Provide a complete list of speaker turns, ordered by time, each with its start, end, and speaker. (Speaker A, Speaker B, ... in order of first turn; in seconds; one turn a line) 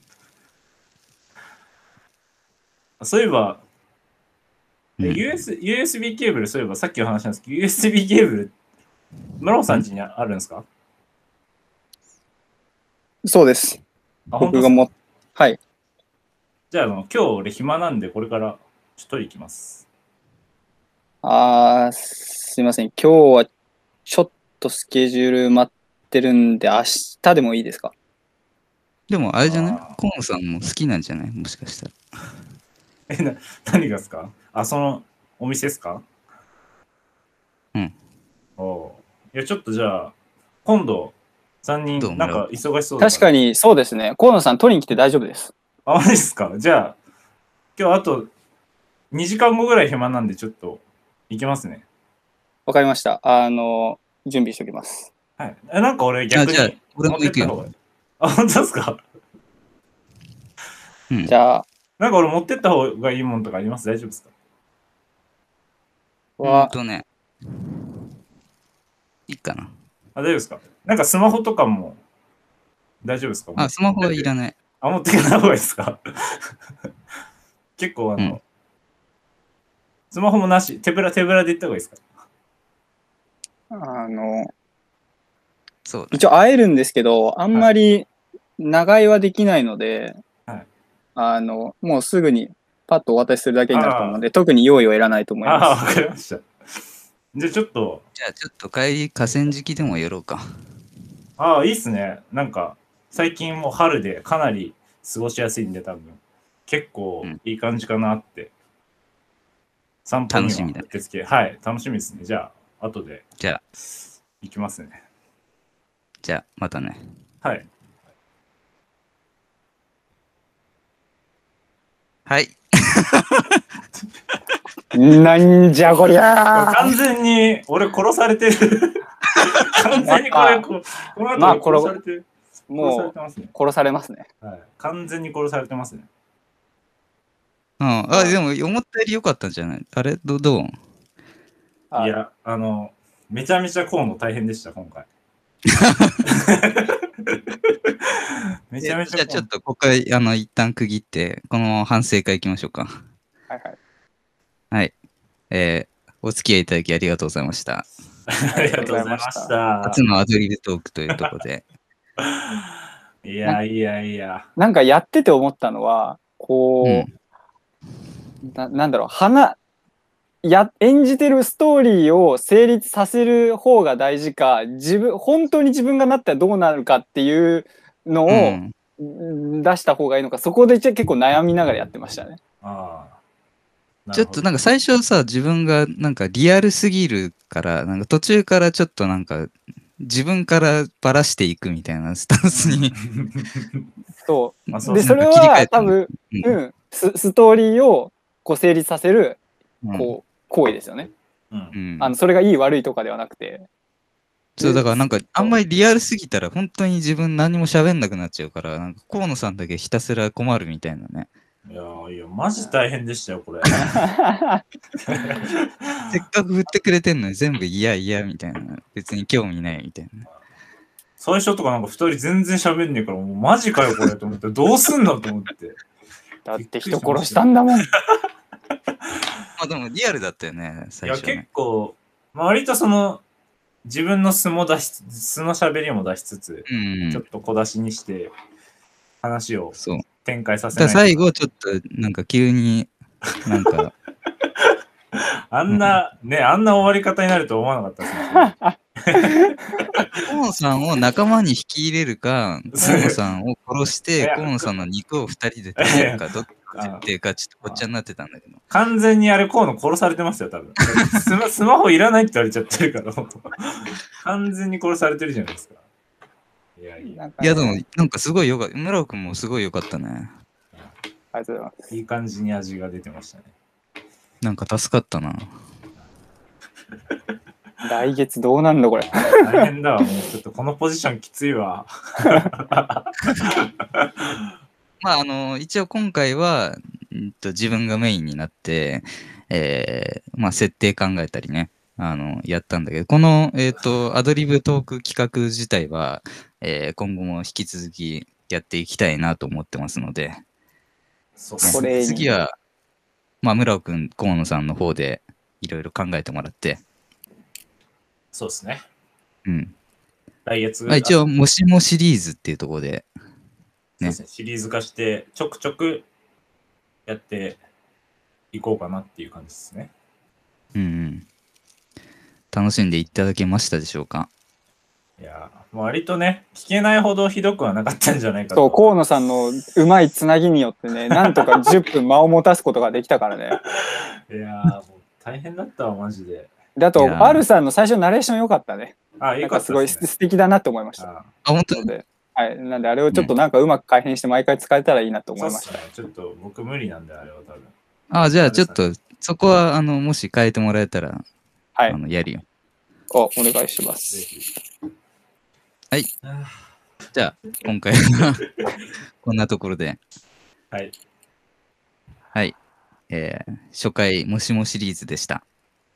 Speaker A: 3.0-3.6
Speaker A: 5.0-8.5
Speaker A: 9.4-10.7
Speaker B: 13.2-13.8
Speaker A: 14.3-14.9
Speaker B: 14.4-15.6
Speaker A: 16.7-19.9
Speaker B: 21.2-23.5
Speaker B: 24.1-27.9
Speaker C: 29.1-31.9
Speaker A: 29.4-30.0
Speaker A: 33.1-36.0
Speaker A: 38.6-40.1
Speaker A: 40.6-43.3
Speaker C: 42.0-42.5
Speaker B: 43.0-45.5
Speaker A: 45.9-47.0
Speaker A: 47.8-48.3
Speaker A: 49.1-51.9
Speaker B: 52.7-55.1
Speaker A: 55.4-59.0
Speaker C: 56.3-57.6
Speaker B: 61.2-61.6
Speaker A: 62.0-64.3
Speaker B: 66.4-66.8
Speaker C: 66.4-67.1
Speaker C: 69.3-69.7
Speaker A: 70.1-72.0
Speaker A: 73.0-76.0
Speaker C: 73.6-74.6
Speaker A: 77.8-78.4
Speaker A: 80.1-82.0
Speaker B: 83.7-84.5
Speaker C: 85.9-86.3
Speaker B: 86.1-88.1
Speaker B: 88.6-90.2
Speaker B: 91.2-95.8
Speaker A: 93.7-94.2
Speaker A: 95.5-96.5
Speaker A: 97.3-98.0
Speaker C: 98.2-100.5
Speaker A: 101.4-108.5
Speaker A: 110.1-113.2
Speaker C: 110.3-110.9
Speaker A: 114.4-115.0
Speaker C: 116.2-117.0
Speaker A: 117.4-117.7
Speaker C: 122.3-123.6
Speaker B: 124.9-126.9
Speaker A: 126.5-132.2
Speaker B: 130.0-130.7
Speaker B: 131.3-132.0
Speaker B: 132.7-134.3
Speaker A: 132.8-133.5
Speaker A: 134.4-136.1
Speaker C: 137.8-140.8
Speaker B: 138.1-138.4
Speaker A: 142.0-145.1
Speaker C: 145.9-146.2
Speaker A: 146.2-147.0
Speaker A: 148.7-149.5
Speaker C: 148.8-152.9
Speaker B: 153.5-153.8
Speaker C: 155.5-157.9
Speaker A: 158.3-160.0
Speaker B: 158.5-159.5
Speaker C: 159.8-161.6
Speaker A: 162.2-162.4
Speaker A: 163.2-164.5
Speaker B: 164.6-167.1
Speaker C: 166.8-167.1
Speaker B: 168.4-169.6
Speaker B: 170.4-182.4
Speaker C: 178.3-178.8
Speaker A: 182.6-183.2
Speaker A: 184.1-184.5
Speaker C: 184.1-192.9
Speaker A: 192.5-193.8
Speaker B: 194.2-199.4
Speaker A: 194.7-195.2
Speaker C: 194.8-196.6
Speaker C: 199.8-200.1
Speaker B: 199.9-201.1
Speaker A: 201.5-201.8
Speaker C: 201.7-202.1
Speaker B: 202.0-203.7
Speaker C: 204.6-211.3
Speaker B: 204.6-205.6
Speaker A: 211.7-214.0
Speaker B: 213.9-214.6
Speaker A: 215.1-216.0
Speaker C: 216.1-220.3
Speaker A: 221.2-225.8
Speaker B: 226.5-227.9
Speaker A: 226.6-228.0
Speaker C: 229.6-231.4
Speaker A: 231.0-233.2
Speaker A: 233.8-238.3
Speaker C: 236.7-237.2
Speaker A: 239.2-241.2
Speaker C: 239.8-240.0
Speaker C: 240.8-242.9
Speaker C: 243.4-243.9
Speaker A: 245.5-250.1
Speaker C: 245.7-246.0
Speaker B: 248.2-249.6
Speaker C: 250.2-258.6
Speaker A: 252.8-253.2
Speaker A: 254.2-254.8
Speaker A: 255.8-257.0
Speaker A: 258.7-265.8
Speaker A: 266.8-267.2
Speaker B: 267.0-267.8
Speaker C: 267.4-270.3
Speaker B: 271.3-271.8
Speaker A: 271.9-273.5
Speaker C: 274.4-275.5
Speaker B: 277.8-279.6
Speaker A: 279.2-284.5
Speaker C: 285.0-300.4
Speaker A: 301.4-302.3
Speaker C: 301.6-302.5
Speaker B: 301.7-302.3
Speaker C: 303.4-306.8
Speaker A: 308.3-308.9
Speaker C: 309.5-309.7
Speaker A: 310.4-311.2
Speaker C: 310.9-313.1
Speaker A: 314.0-316.1
Speaker A: 317.1-317.6
Speaker A: 318.5-319.9
Speaker C: 320.8-321.2
Speaker C: 322.5-324.3
Speaker A: 325.2-328.9
Speaker B: 328.5-333.6
Speaker A: 331.1-331.4
Speaker A: 333.9-336.5
Speaker B: 336.8-341.1
Speaker C: 337.0-337.4
Speaker A: 339.2-340.1
Speaker A: 341.0-341.3
Speaker C: 341.4-341.9
Speaker B: 341.8-345.8
Speaker A: 345.4-348.8
Speaker C: 348.1-351.2
Speaker C: 351.9-352.4
Speaker B: 353.1-354.2
Speaker A: 354.1-354.5
Speaker A: 356.2-356.6
Speaker C: 357.1-358.5
Speaker C: 359.2-360.0
Speaker C: 363.1-365.4